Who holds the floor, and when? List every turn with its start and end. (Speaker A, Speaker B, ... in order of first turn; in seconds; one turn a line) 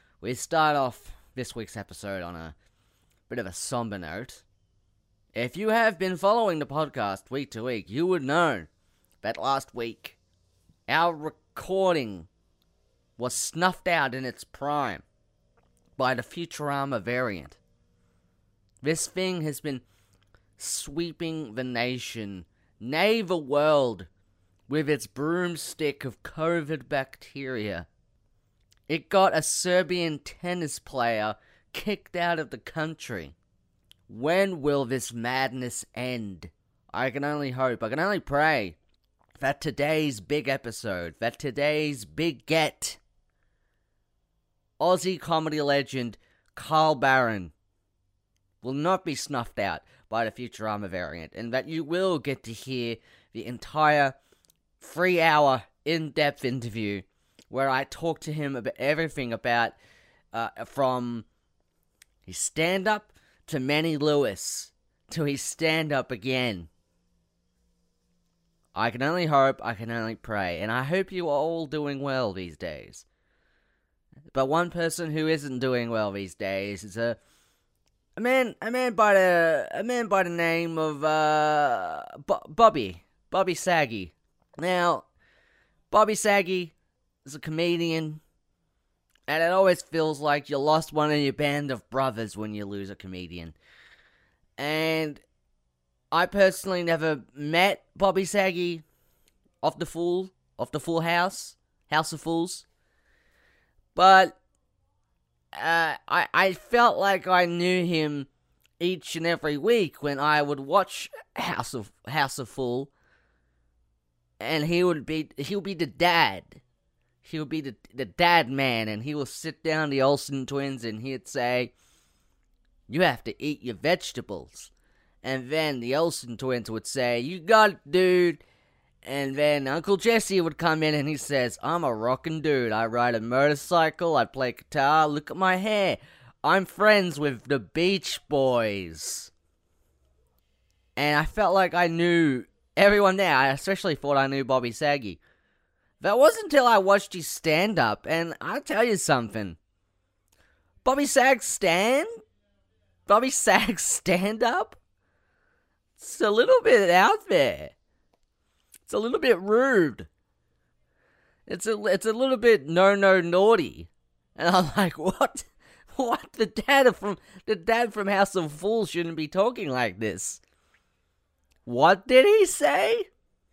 Speaker A: 0.2-2.5
Speaker A: 3.3-4.4
Speaker A: 5.3-8.7
Speaker A: 9.2-10.2
Speaker A: 10.9-12.3
Speaker A: 13.2-15.0
Speaker A: 16.0-17.6
Speaker A: 18.8-19.8
Speaker A: 20.6-24.1
Speaker A: 24.7-27.9
Speaker A: 28.9-33.3
Speaker A: 34.1-38.8
Speaker A: 39.4-43.0
Speaker A: 44.8-47.5
Speaker A: 48.6-54.2
Speaker A: 54.8-59.8
Speaker A: 60.3-61.2
Speaker A: 62.2-66.7
Speaker A: 68.7-73.0
Speaker A: 74.3-77.2
Speaker A: 78.2-85.0
Speaker A: 85.9-86.7
Speaker A: 87.2-88.2
Speaker A: 89.3-93.5
Speaker A: 94.6-95.2
Speaker A: 96.1-98.8
Speaker A: 99.6-102.6
Speaker A: 103.9-104.4
Speaker A: 105.5-108.3
Speaker A: 108.8-112.9
Speaker A: 114.4-116.6
Speaker A: 117.2-121.7
Speaker A: 122.9-124.7
Speaker A: 125.2-128.4
Speaker A: 129.0-139.3
Speaker A: 141.0-145.2
Speaker A: 146.0-149.6
Speaker A: 150.8-152.2
Speaker A: 153.1-154.8
Speaker A: 156.0-157.7
Speaker A: 158.8-160.1
Speaker A: 161.5-170.4
Speaker A: 171.7-173.1